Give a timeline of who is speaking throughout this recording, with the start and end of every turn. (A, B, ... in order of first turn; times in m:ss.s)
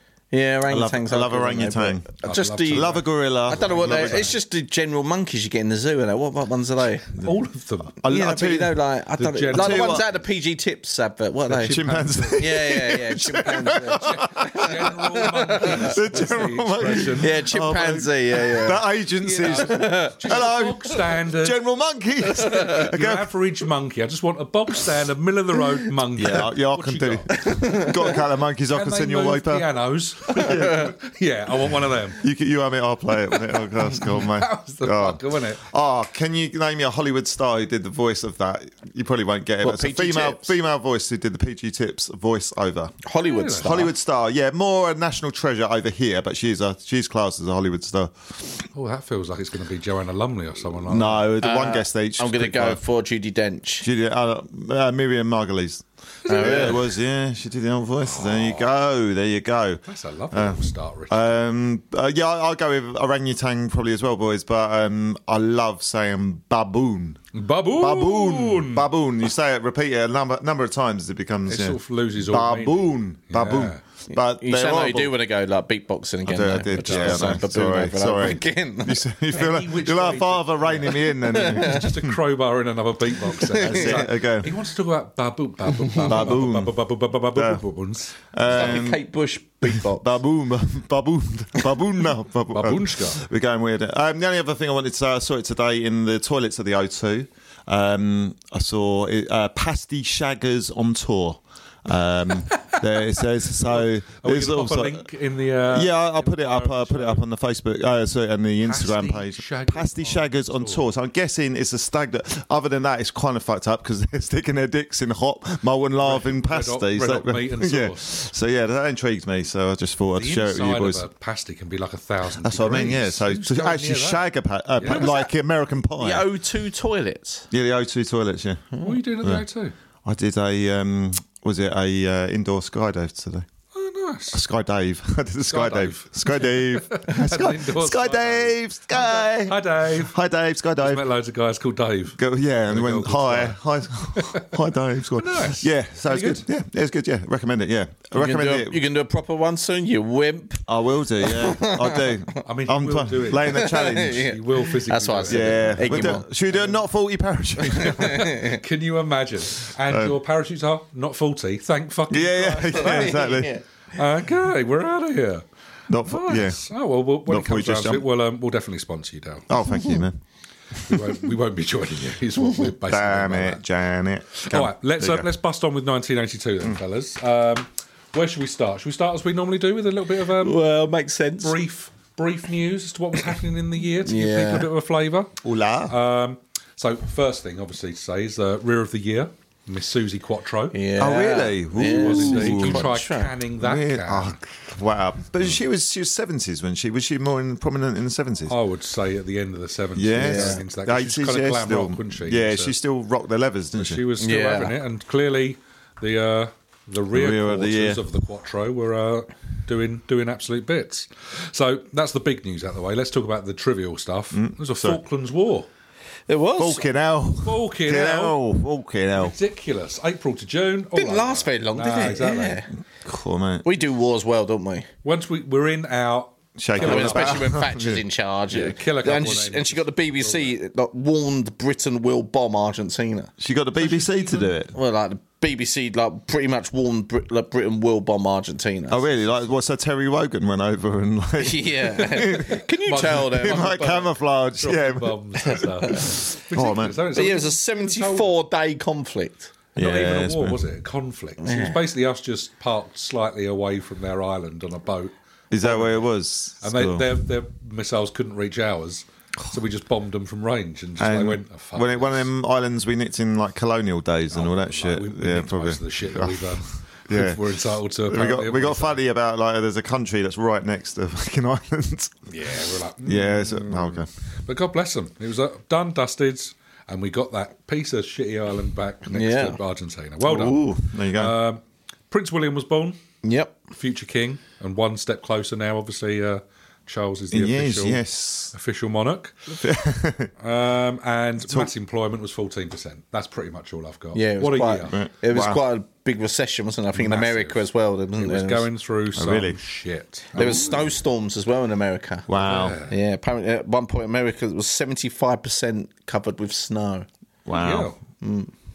0:00.3-0:07.1 A
0:00.7-0:02.0 B
0:02.2-0:04.4 C
0:02.7-0:04.3 B
0:07.2-0:08.0 C
0:08.0-0:08.8 B
0:08.1-0:16.3 A
0:09.2-0:10.0 C
0:09.5-0:10.1 B
0:11.5-0:12.5 C
0:11.5-0:23.3 B
0:14.0-0:17.4 C
0:16.9-0:20.5 A
0:19.4-0:21.6 C
0:22.3-0:28.1 C
0:22.4-0:22.8 A
0:26.1-0:29.7 B
0:27.5-0:28.0 A
0:28.7-0:32.2 C
0:30.3-0:30.9 B
0:32.1-0:43.0 B
0:33.3-0:35.6 C
0:39.6-0:40.5 A
0:43.0-0:43.9 A
0:43.2-0:43.8 C
0:43.6-0:48.6 B
0:48.7-0:51.3 C
0:50.8-0:52.8 B
0:51.4-0:53.9 A
0:53.8-1:15.1 B
0:56.2-0:56.8 C
0:56.3-0:56.9 A
0:58.0-0:58.6 C
0:59.8-1:01.3 C
1:07.3-1:08.9 C
1:11.5-1:13.8 C
1:14.1-1:19.0 A
1:16.2-1:22.2 B
1:16.8-1:17.4 C
1:19.3-1:28.8 C
1:21.2-1:21.9 A
1:23.3-1:24.2 A
1:23.6-1:24.5 B
1:26.1-1:26.7 B
1:27.3-1:27.6 B
1:28.3-1:29.0 B
1:28.4-1:30.1 A
1:29.6-1:45.0 B
1:32.5-1:33.2 C
1:42.5-1:47.2 C
1:45.7-2:01.0 B
1:48.6-1:50.8 C
1:56.0-1:58.1 C
2:00.1-2:04.2 C
2:02.3-2:06.3 B
2:04.8-2:05.1 C
2:04.8-2:05.3 A
2:06.0-2:07.5 A
2:07.5-2:09.4 B
2:08.7-2:09.0 A
2:08.8-2:09.7 C
2:10.0-2:13.5 B
2:13.7-2:14.4 C
2:14.3-2:21.0 B
2:15.4-2:20.1 C
2:20.8-2:23.6 C
2:22.2-2:28.8 B
2:24.1-2:24.5 C
2:25.1-2:26.4 C
2:28.1-2:30.6 A
2:30.7-2:34.3 B
2:31.2-2:32.4 A
2:32.4-2:36.3 C
2:33.5-2:36.3 A
2:35.2-2:38.3 B
2:37.6-2:38.6 A
2:37.8-2:45.4 C
2:39.8-2:40.2 B
2:42.1-2:43.5 B
2:42.7-2:43.6 A
2:45.9-2:46.6 B
2:46.0-2:49.5 C
2:47.2-2:48.0 B
2:49.5-2:50.2 B
2:50.8-2:53.6 C
2:52.8-2:55.3 B
2:54.3-3:00.6 C
3:00.4-3:01.6 A
3:01.4-3:05.3 C
3:04.0-3:04.7 A
3:05.4-3:06.0 B
3:05.9-3:10.8 C
3:10.7-3:13.3 A
3:11.0-3:13.0 B
3:11.8-3:14.4 C
3:13.6-3:18.6 B
3:18.5-3:22.8 C
3:19.9-3:24.0 B
3:20.2-3:20.6 A
3:23.7-3:35.7 C
3:24.2-3:24.8 A
3:27.1-3:28.0 B
3:34.3-3:35.0 B
3:36.3-3:36.9 A
3:36.6-3:39.3 B
3:37.4-3:38.4 C
3:39.2-3:42.6 C
3:40.9-3:42.7 A
3:43.0-3:43.6 B
3:43.6-3:44.9 A
3:45.0-3:47.6 C
3:46.6-3:48.0 B
3:46.8-3:53.3 A
3:48.5-3:50.5 C
3:53.4-3:54.7 B
3:53.8-3:54.5 C
3:54.7-3:59.0 A
3:58.9-4:07.1 B
4:01.4-4:03.9 A
4:01.9-4:08.3 C
4:07.1-4:09.5 A
4:09.7-4:16.1 C
4:09.8-4:10.6 B
4:11.4-4:11.8 A
4:15.5-4:17.2 B
4:16.6-4:22.3 C
4:21.0-4:32.2 B
4:24.3-4:29.0 C
4:32.2-4:43.0 C
4:33.0-4:34.1 B
4:39.1-4:39.6 A
4:40.2-4:41.3 B
4:43.2-4:43.6 A
4:43.7-4:49.6 C
4:47.3-4:48.5 B
4:49.6-4:50.3 B
4:50.4-4:55.0 C
4:54.1-4:58.7 A
4:54.9-4:55.6 B
4:56.9-4:57.6 C
4:58.2-5:00.9 C
4:59.1-4:59.6 B
5:00.3-5:00.8 B
5:00.3-5:02.3 A
5:02.3-5:02.8 B
5:02.3-5:03.0 C
5:02.8-5:07.1 A
5:07.5-5:07.9 B
5:07.5-5:08.0 C
5:08.2-5:08.5 A